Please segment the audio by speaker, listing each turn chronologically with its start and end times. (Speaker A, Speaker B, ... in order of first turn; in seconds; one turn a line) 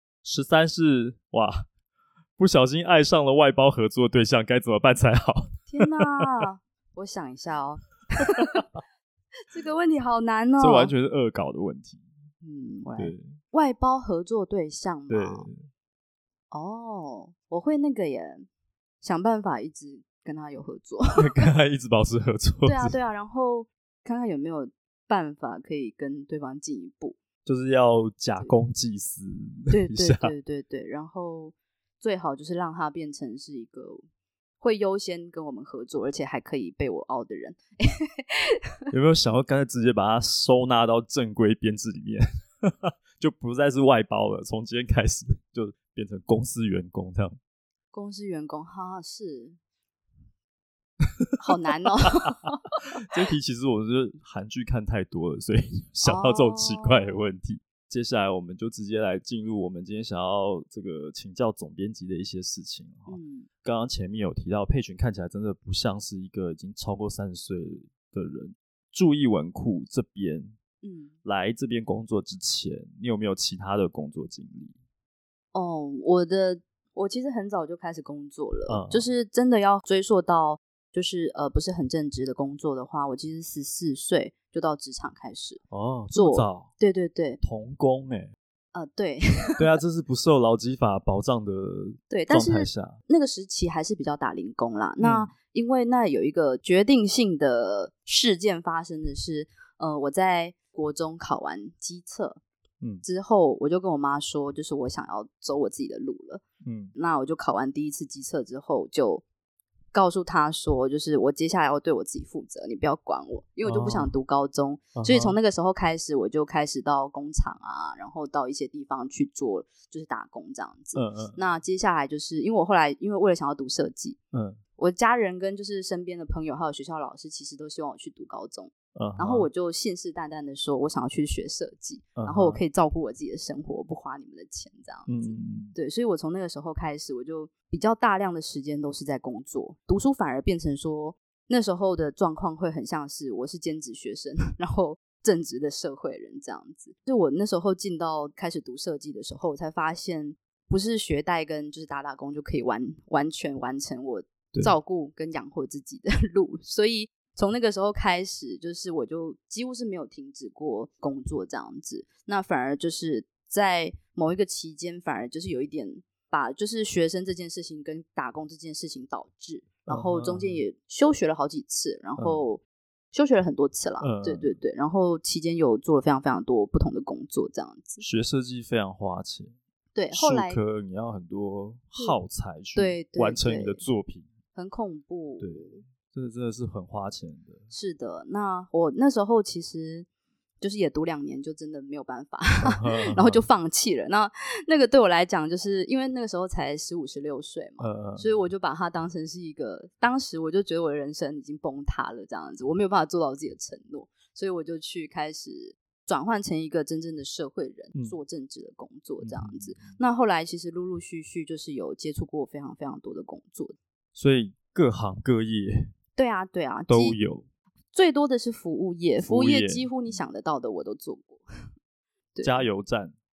Speaker A: 0.2-1.6
Speaker A: 2.4-6.3
Speaker B: 5.7-8.6
Speaker A: 8.3-8.6
Speaker B: 9.5-10.9
Speaker A: 10.6-12.0
Speaker B: 12.4-15.5
Speaker A: 13.0-13.4
Speaker A: 15.1-15.6
Speaker B: 16.5-18.5
Speaker B: 19.0-21.4
Speaker A: 21.2-22.9
Speaker B: 22.6-27.2
Speaker A: 27.4-30.3
Speaker B: 29.7-34.0
Speaker B: 34.6-38.9
Speaker A: 38.9-47.4
Speaker B: 47.9-49.6
Speaker A: 51.2-51.5
Speaker B: 51.4-53.0
Speaker A: 53.0-70.5
Speaker B: 56.0-57.2
Speaker B: 63.1-63.5
Speaker B: 70.8-71.2
Speaker A: 71.2-74.7
Speaker B: 75.5-85.6
Speaker A: 78.7-79.1
Speaker A: 85.7-86.7
Speaker B: 86.1-87.4
Speaker A: 87.4-88.3
Speaker B: 88.7-89.7
Speaker A: 89.6-93.0
Speaker B: 92.1-102.4
Speaker A: 95.0-95.3
Speaker B: 103.0-106.4
Speaker A: 106.6-106.9
Speaker B: 106.9-109.2
Speaker B: 109.9-124.2
Speaker A: 113.6-114.1
Speaker A: 115.0-115.4
Speaker A: 120.9-121.4
Speaker A: 124.3-124.6
Speaker B: 124.8-178.0
Speaker A: 128.9-129.5
Speaker A: 132.2-132.6
Speaker A: 135.1-135.7
Speaker A: 169.9-170.6
Speaker A: 174.0-174.6
Speaker A: 178.0-179.5
Speaker B: 179.9-180.6
Speaker A: 180.1-184.3
Speaker B: 182.7-183.8
Speaker B: 184.5-185.8
Speaker A: 185.4-187.6
Speaker B: 187.7-190.1
Speaker B: 190.6-213.8
Speaker A: 192.6-193.4
Speaker A: 197.8-198.3
Speaker A: 209.2-210.0
Speaker A: 214.1-215.9
Speaker B: 216.2-217.2
Speaker A: 216.9-217.4
Speaker B: 217.9-221.4
Speaker A: 219.2-219.9
Speaker B: 222.3-222.6
Speaker A: 222.4-223.1